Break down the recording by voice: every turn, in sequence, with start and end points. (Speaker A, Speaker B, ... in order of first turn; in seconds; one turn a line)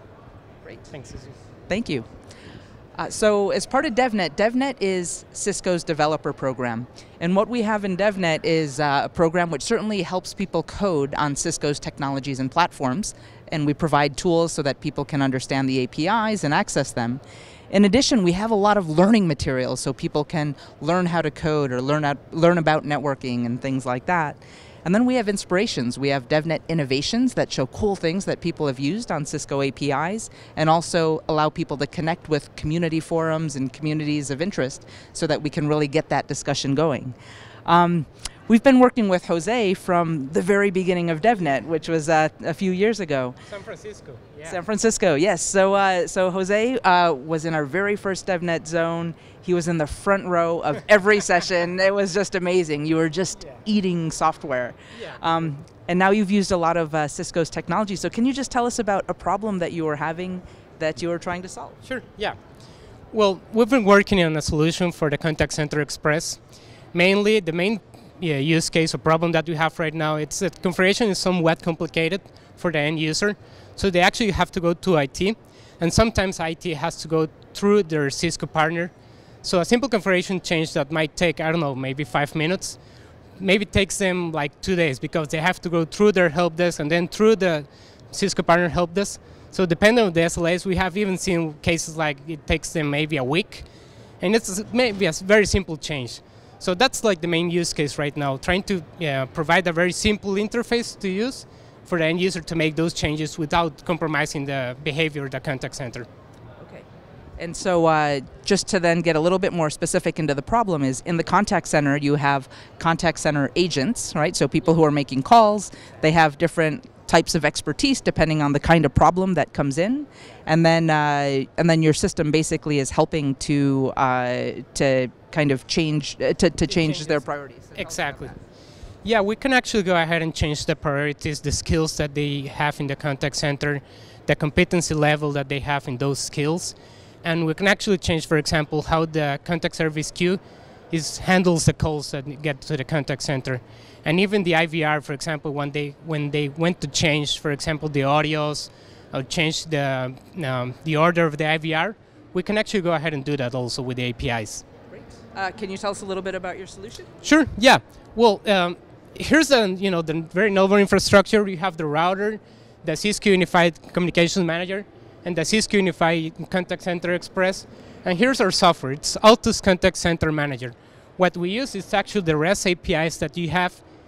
Speaker A: 0.9-1.4
Speaker B: 1.7-2.1
Speaker B: 3.0-43.4
Speaker A: 43.5-44.6
Speaker B: 44.5-61.8
Speaker A: 54.9-55.2
Speaker A: 61.8-62.4
Speaker A: 63.1-66.4
Speaker A: 66.9-82.8
Speaker A: 83.4-93.7
Speaker A: 94.2-106.1
Speaker B: 106.6-106.8
Speaker B: 107.4-128.4
Speaker A: 126.7-127.2
Speaker A: 127.8-128.3
Speaker A: 129.0-154.6
Speaker B: 154.9-157.1
Speaker A: 157.2-173.8